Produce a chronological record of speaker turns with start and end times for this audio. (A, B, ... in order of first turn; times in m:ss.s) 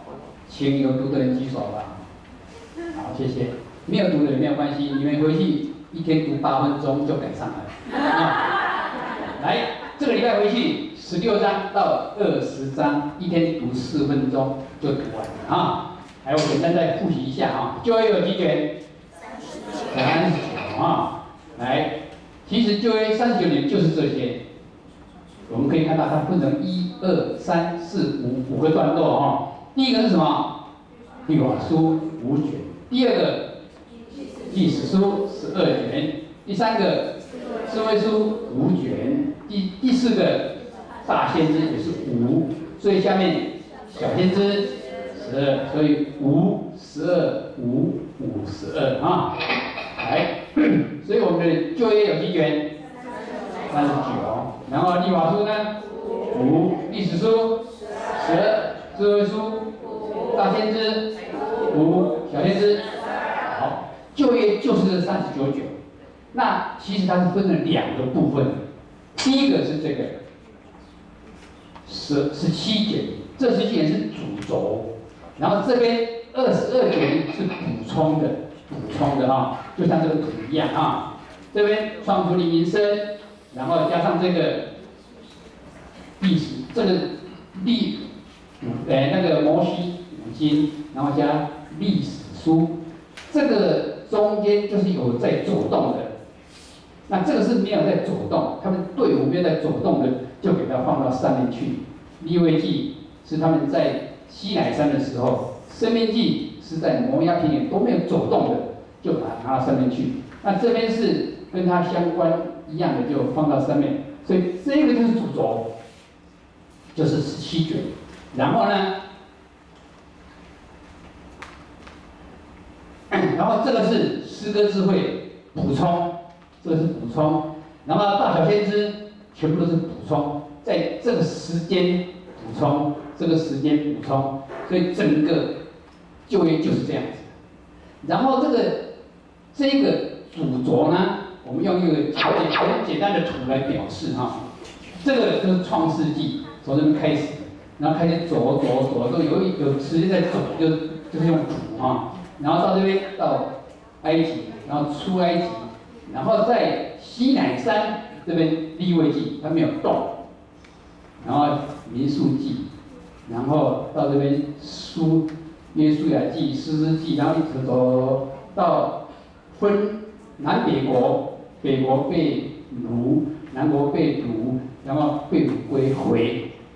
0:00.5-0:02.0 A
0:02.9-0:18.7 A
0:19.9-0:21.9 A
0:22.4-0:24.4 A
0:25.5-0:30.5 A
0:31.2-0:33.5 A
0:34.4-0:37.1 A
0:37.6-0:40.5 A
0:41.0-0:52.7 A
0:53.7-0:55.7 A
0:56.3-0:57.6 A
0:58.1-0:59.6 A
1:00.3-1:01.1 A
1:01.7-1:02.9 A
1:03.4-1:05.8 A
1:06.3-1:08.6 A
1:09.2-1:10.2 A
1:11.8-1:14.9 A
1:15.4-1:24.6 A
1:26.2-1:28.0 A
1:28.6-1:32.7 A
1:33.3-1:36.1 A
1:37.1-1:55.6 A
1:56.9-1:58.9 A
2:03.1-2:15.5 A
2:16.3-2:17.3 A
2:18.0-2:18.8 A
2:19.5-2:24.4 A
2:25.0-2:33.5 A
2:34.0-2:40.1 A
2:41.2-2:42.7 A
2:43.3-2:49.0 A
2:49.5-2:56.4 A